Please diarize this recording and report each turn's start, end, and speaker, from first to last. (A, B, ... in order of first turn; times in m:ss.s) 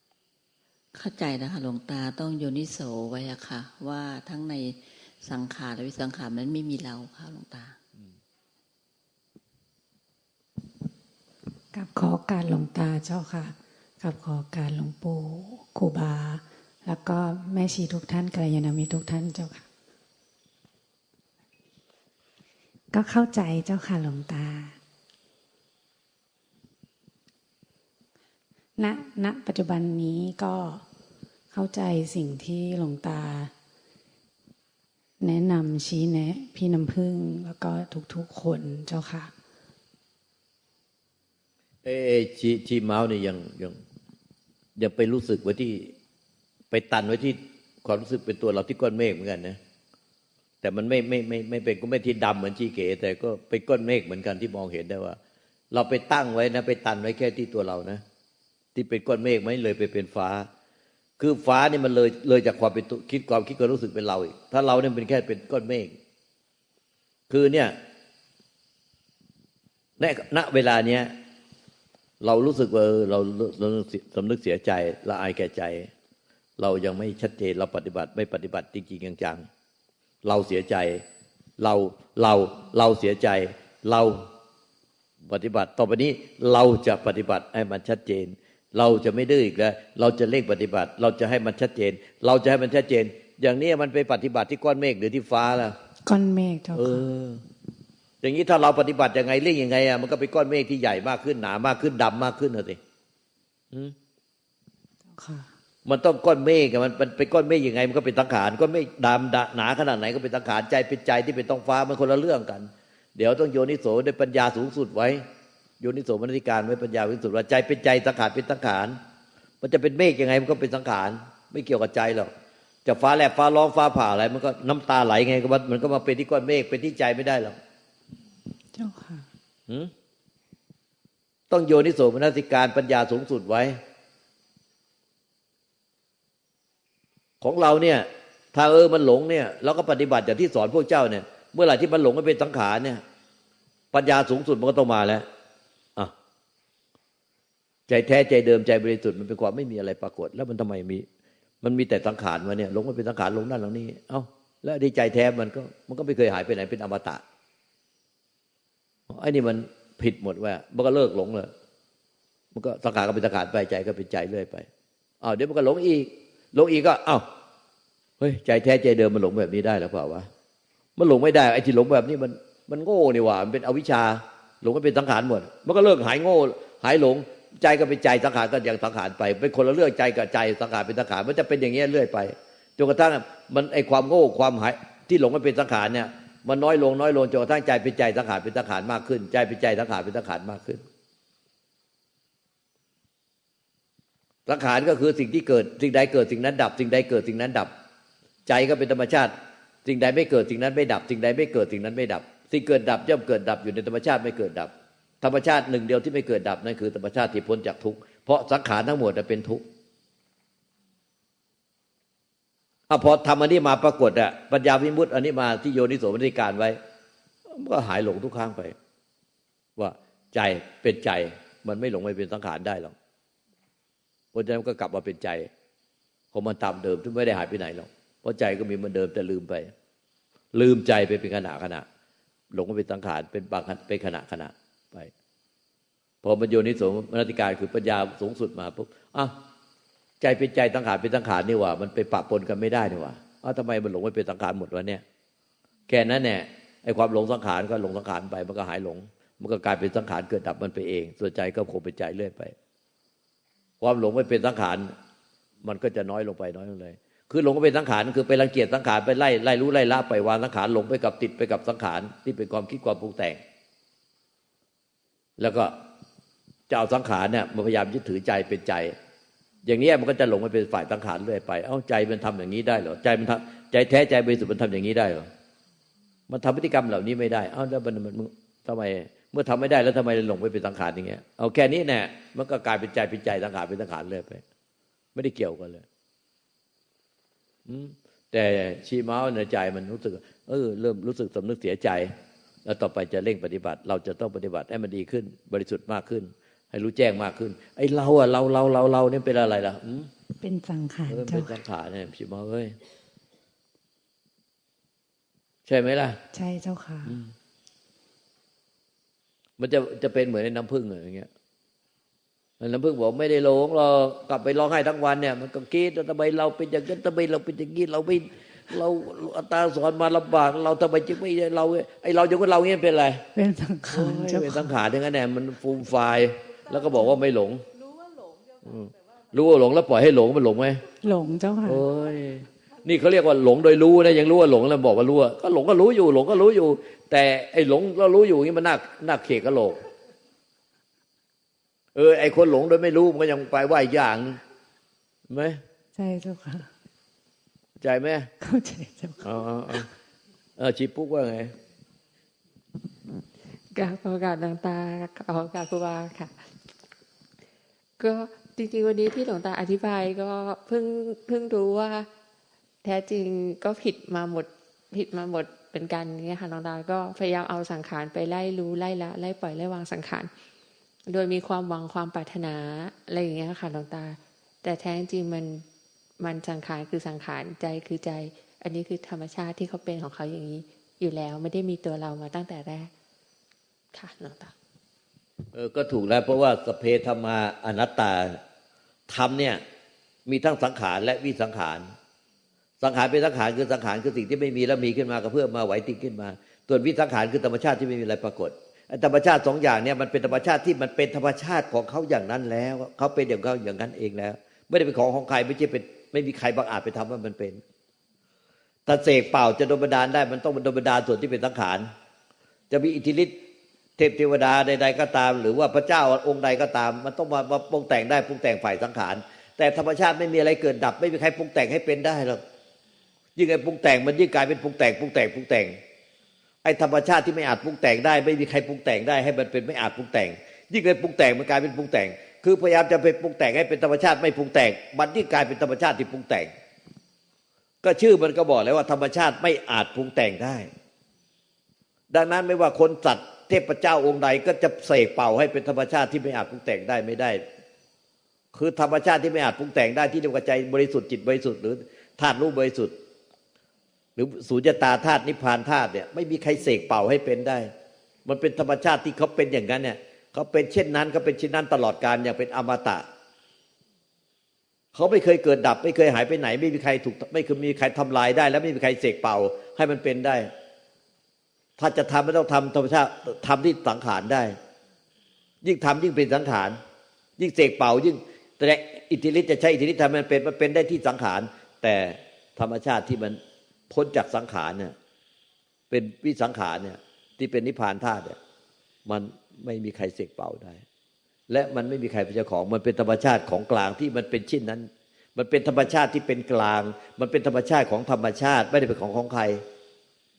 0:00.9-0:07.8 A
0:11.7-0:19.6 B
0:22.9-0:24.8 B
0:28.8-0:30.8 B
0:31.5-0:33.5 B
0:35.2-0:39.3 B
0:41.8-0:43.8 C
0:44.8-0:45.9 C
0:46.7-0:49.6 C
0:50.6-0:55.2 C
0:55.7-0:58.0 C
0:58.7-1:00.5 C
1:01.2-1:05.9 C
1:07.3-1:07.7 C
1:10.0-1:11.1 C
1:12.2-1:15.9 C
1:16.6-1:19.4 C
1:20.2-1:21.0 C
1:21.6-1:24.2 C
1:25.3-1:35.7 C
1:36.0-1:37.0 B
1:36.7-1:37.4 C
1:38.2-1:42.8 C
1:45.2-1:45.5 B
1:45.8-1:55.2 C
1:55.8-1:59.0 C
1:59.6-2:02.3 C
2:02.8-2:07.5 C
2:08.7-2:09.3 B
2:11.5-2:13.8 C
2:17.4-2:23.0 C
2:23.9-2:25.2 C
2:27.9-2:31.0 C
2:31.6-2:37.2 C
2:39.1-2:41.5 C
2:42.5-2:44.7 C
2:45.2-2:47.2 C
2:48.2-2:50.3 C
2:51.0-3:10.8 C
3:14.4-3:17.7 C
3:18.5-3:19.3 C
3:19.8-3:29.6 C
3:32.9-3:36.8 C
3:37.5-3:38.7 C
3:39.8-3:42.9 C
3:44.3-3:45.5 C
3:46.3-3:49.7 C
3:50.5-3:51.8 C
3:52.5-3:55.1 C
3:56.2-3:59.3 C
4:00.2-4:05.0 C
4:05.9-4:12.5 C
4:13.8-4:14.9 C
4:15.6-4:23.4 C
4:25.4-4:25.7 C
4:26.7-4:28.9 C
4:29.6-4:35.3 C
4:36.3-4:44.4 C
4:45.1-4:45.8 C
4:47.7-4:52.1 C
4:52.6-5:00.1 C
5:00.4-5:01.6 B
5:01.1-5:02.8 C
5:05.6-5:06.2 C
5:06.3-5:07.2 B
5:09.6-5:11.3 C
5:12.6-5:23.2 C
5:23.3-5:24.7 B
5:23.9-5:27.6 C
5:28.6-5:30.8 C
5:31.0-5:31.8 B
5:31.6-5:39.8 C
5:42.0-5:44.4 C
5:45.3-5:45.6 C
5:45.9-5:46.7 B
5:47.8-5:48.3 C
5:48.4-5:49.2 B
5:49.2-5:49.9 C
5:50.6-5:51.5 C
5:53.7-5:56.3 D
5:58.0-6:02.0 D
6:02.8-6:10.3 D
6:11.1-6:15.6 D
6:16.2-6:22.9 D
6:23.9-6:24.5 D
6:25.5-6:28.4 C
6:29.1-6:29.6 C
6:30.2-6:31.9 C
6:32.8-6:47.6 C
6:48.8-6:51.9 C
6:52.7-6:53.4 C
6:54.0-7:02.4 C
7:03.4-7:05.8 C
7:06.6-7:16.5 C
7:17.8-7:20.7 C
7:22.1-7:27.4 C
7:28.5-7:32.9 C
7:34.2-7:37.7 C
7:38.2-7:43.0 C
7:44.9-7:50.5 C
7:51.8-7:54.6 C
7:55.6-7:56.8 C
7:57.4-8:03.4 C
8:03.9-8:04.9 C
8:05.9-8:08.4 C
8:09.0-8:10.8 C
8:11.5-8:19.6 C